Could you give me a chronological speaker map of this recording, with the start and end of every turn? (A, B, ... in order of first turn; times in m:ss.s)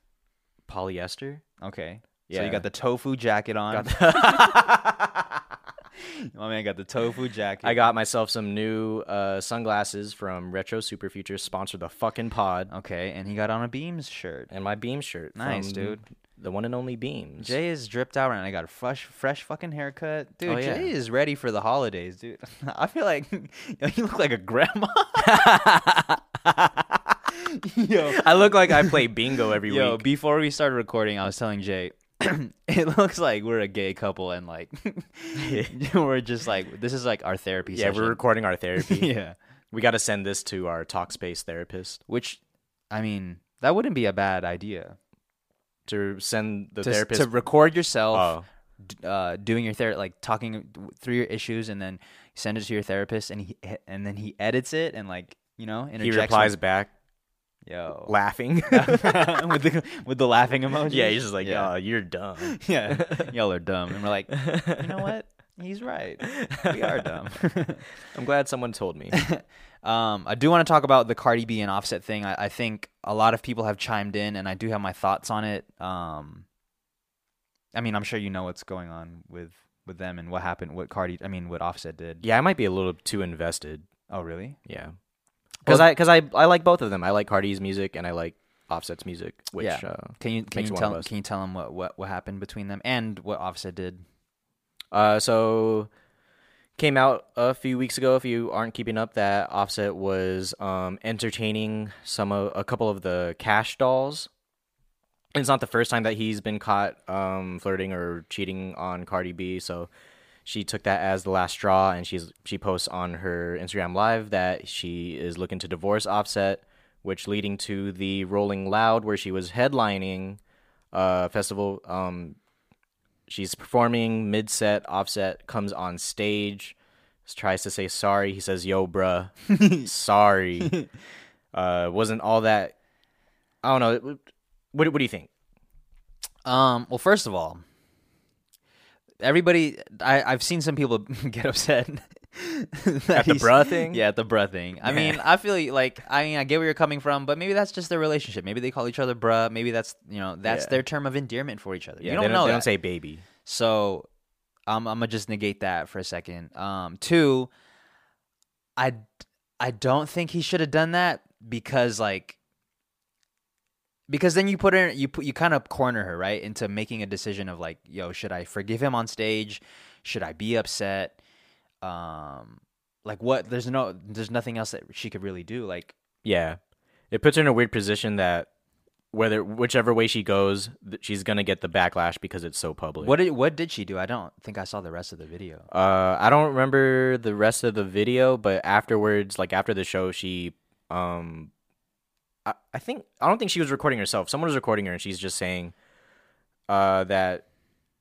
0:00.7-0:01.4 A
0:01.6-0:05.0 B
0:02.3-0:02.6 A
0:03.7-0:04.8 A
0:06.0-0:07.9 B
0:07.6-0:12.7 A
0:12.7-0:14.5 B
0:14.5-0:17.6 A
0:15.4-0:16.0 B
0:17.4-0:38.2 B
0:20.5-0:20.9 A
0:25.3-0:25.8 A
0:28.0-0:30.1 A
0:35.4-0:35.8 A
0:37.7-0:39.1 A
0:38.8-0:39.4 B
0:39.7-0:42.0 A
0:42.1-0:42.4 B
0:42.9-0:45.0 B
0:45.9-0:47.3 A
0:46.8-0:56.6 B
0:48.1-0:48.4 A
0:56.0-0:56.9 A
0:57.7-0:58.1 B
0:58.1-0:59.4 A
0:58.7-1:01.7 B
1:00.9-1:03.3 A
1:02.4-1:07.8 B
1:04.3-1:05.0 A
1:06.3-1:06.9 A
1:08.0-1:09.2 A
1:09.1-1:16.5 B
1:17.7-1:22.2 B
1:22.2-1:23.9 A
1:24.1-1:24.6 B
1:24.7-1:24.9 A
1:25.6-1:31.1 A
1:29.6-1:34.0 B
1:34.9-1:35.9 A
1:36.8-1:44.3 A
1:45.4-1:49.9 A
1:50.4-2:00.4 A
2:00.9-2:02.4 A
2:03.3-2:10.8 A
2:09.6-2:09.9 B
2:10.6-2:10.9 B
2:11.5-2:12.7 A
2:13.6-2:15.3 A
2:16.4-2:17.6 B
2:19.2-2:32.7 B
2:23.2-2:24.0 A
2:24.8-2:25.2 A
2:30.4-2:30.8 A
2:32.0-2:33.2 A
2:33.4-2:34.1 B
2:34.7-2:37.5 B
2:38.8-2:39.1 B
2:39.6-2:42.4 B
2:44.1-2:51.2 B
2:51.8-2:56.0 B
2:56.2-2:56.6 A
2:57.1-2:58.5 A
2:59.1-3:03.2 A
3:03.0-3:05.7 B
3:05.7-3:11.5 A
3:12.4-3:15.7 A
3:16.7-3:17.4 A